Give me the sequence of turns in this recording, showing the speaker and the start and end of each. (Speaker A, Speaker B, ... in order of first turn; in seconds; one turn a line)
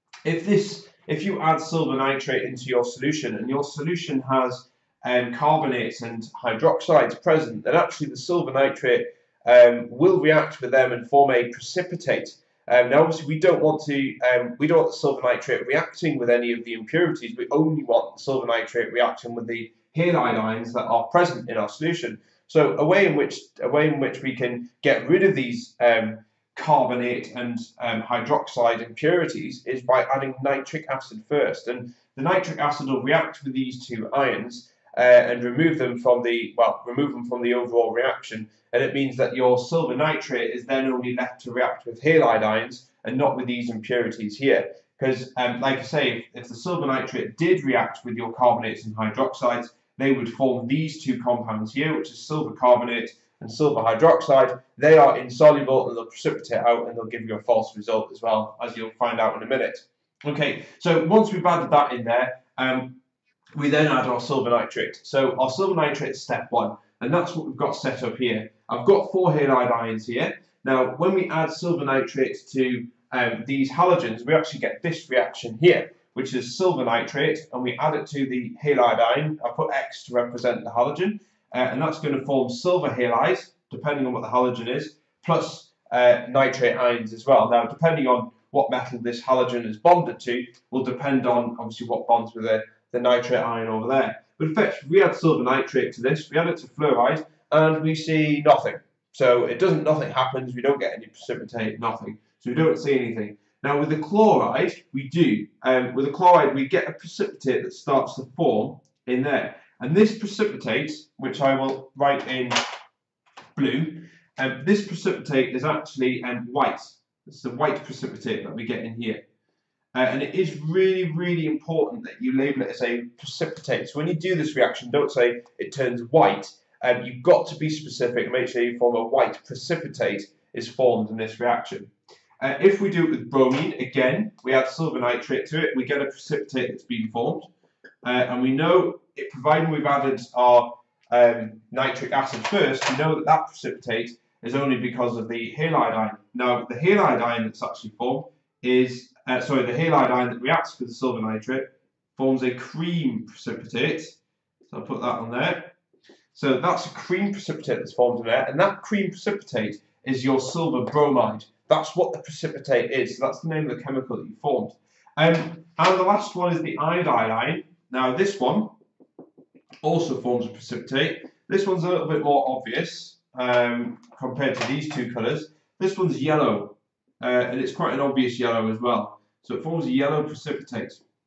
Speaker A: 0.2-63.0
Speaker A: 63.5-112.6
Speaker A: 113.6-119.2
Speaker A: 119.9-137.5
Speaker A: 138.0-155.7
Speaker A: 156.3-168.7
Speaker A: 169.8-181.0